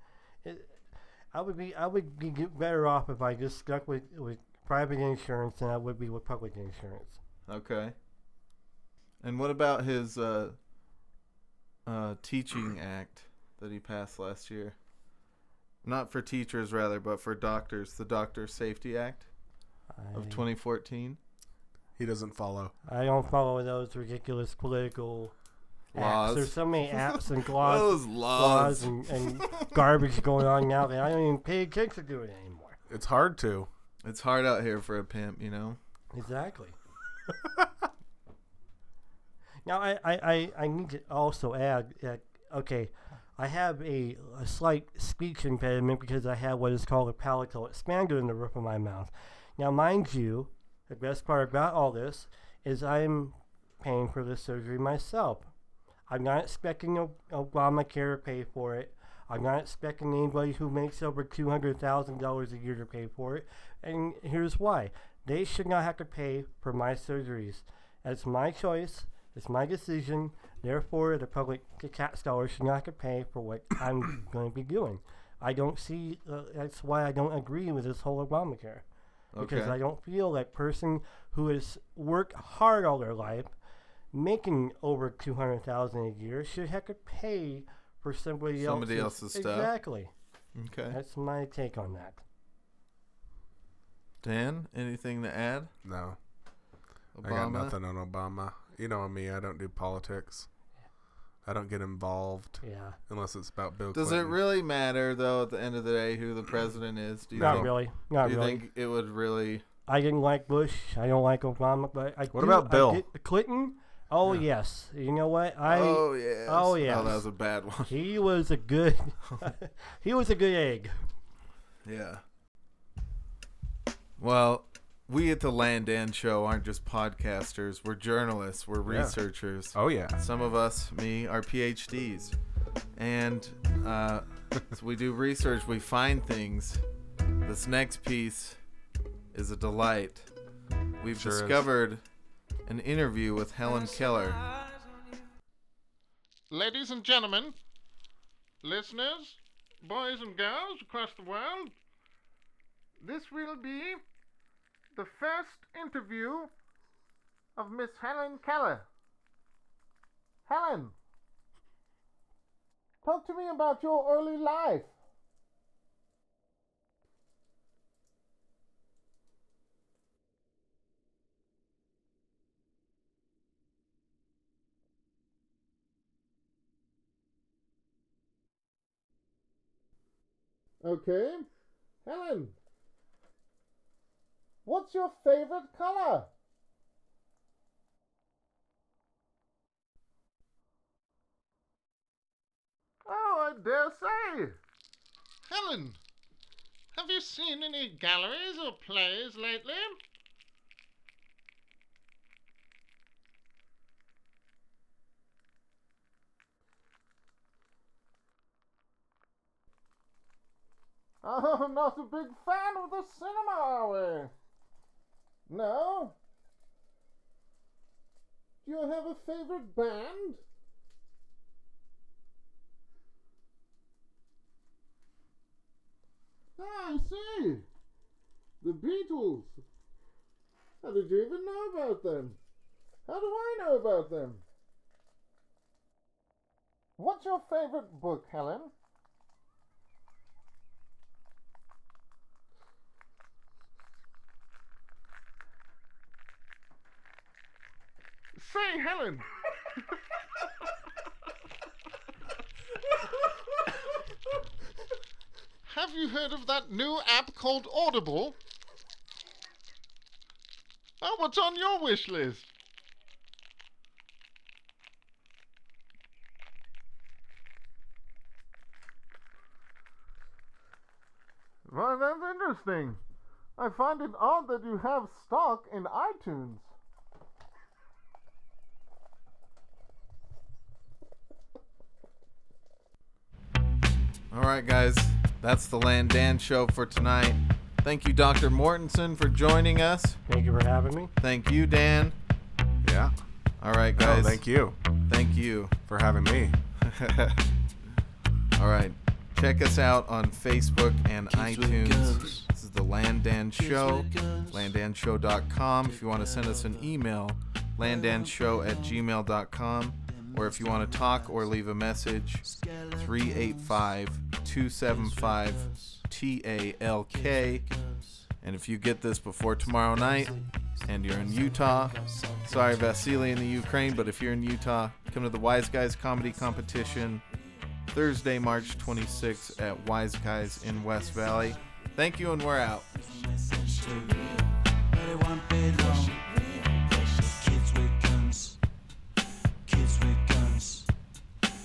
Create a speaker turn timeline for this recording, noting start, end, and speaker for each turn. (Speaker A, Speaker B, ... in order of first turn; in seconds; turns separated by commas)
Speaker A: 0.4-0.8, Speaker A: 1.3-7.2, Speaker B: 7.5-8.0, Speaker B: 9.2-10.6, Speaker B: 11.9-14.8, Speaker B: 15.8-19.3, Speaker A: 19.9-20.4, Speaker B: 20.1-21.2, Speaker C: 22.0-22.7, Speaker A: 22.9-25.3, Speaker B: 25.9-29.7, Speaker A: 25.9-32.8, Speaker C: 32.9-33.7, Speaker B: 34.0-35.8, Speaker A: 36.1-36.8, Speaker C: 37.4-37.7, Speaker A: 39.6-55.5, Speaker A: 56.1-78.8, Speaker B: 79.3-79.8, Speaker A: 79.4-83.5, Speaker A: 84.1-90.1, Speaker B: 88.6-89.7, Speaker B: 90.5-91.0, Speaker A: 90.9-92.2, Speaker B: 94.2-95.7, Speaker C: 95.8-96.2, Speaker B: 97.2-97.8, Speaker C: 97.2-100.5, Speaker C: 101.5-104.4, Speaker A: 102.6-103.0, Speaker B: 103.9-109.6, Speaker C: 107.4-107.7, Speaker A: 107.4-108.6, Speaker A: 109.9-117.2, Speaker C: 112.3-113.0, Speaker B: 115.7-117.9, Speaker A: 117.9-121.1, Speaker B: 121.9-122.2, Speaker B: 124.2-132.3, Speaker C: 128.9-129.2, Speaker C: 129.7-130.2, Speaker B: 133.0-136.8, Speaker B: 137.4-138.6, Speaker B: 139.3-140.3, Speaker B: 141.0-142.0, Speaker C: 141.1-141.6, Speaker B: 142.7-144.4, Speaker D: 146.5-147.6, Speaker D: 148.6-151.8, Speaker D: 153.0-154.0, Speaker D: 154.9-156.5, Speaker D: 157.6-158.9, Speaker D: 160.5-160.9, Speaker D: 163.0-164.9, Speaker D: 180.8-181.5, Speaker D: 182.1-182.6, Speaker D: 184.7-186.3, Speaker D: 193.1-194.6, Speaker D: 195.5-196.0, Speaker D: 196.9-200.0, Speaker D: 211.2-214.3, Speaker D: 215.5-216.2, Speaker D: 218.6-220.4, Speaker D: 226.6-227.7, Speaker D: 228.6-229.6, Speaker D: 230.8-232.4, Speaker D: 233.1-234.4, Speaker D: 237.0-238.7, Speaker D: 248.4-249.3, Speaker D: 255.7-258.4, Speaker D: 261.0-262.5, Speaker D: 271.7-273.0, Speaker D: 273.6-276.7, Speaker B: 284.3-290.2, Speaker A: 290.3-291.1, Speaker B: 291.2-292.2, Speaker C: 292.8-293.1, Speaker B: 293.6-294.4, Speaker C: 294.0-294.8, Speaker B: 295.1-295.8, Speaker C: 295.9-296.6, Speaker B: 296.8-297.4, Speaker B: 298.6-317.7, Speaker E: 301.3-302.5, Speaker E: 303.6-304.7, Speaker E: 305.9-306.9, Speaker E: 307.8-309.0, Speaker E: 310.1-311.5, Speaker E: 312.4-314.0, Speaker E: 314.8-316.1, Speaker E: 317.1-318.3, Speaker B: 318.4-320.3, Speaker E: 319.6-324.2, Speaker B: 320.9-321.9, Speaker B: 322.5-327.2, Speaker E: 326.1-332.0, Speaker B: 327.9-332.9, Speaker E: 332.9-338.6, Speaker E: 339.7-340.9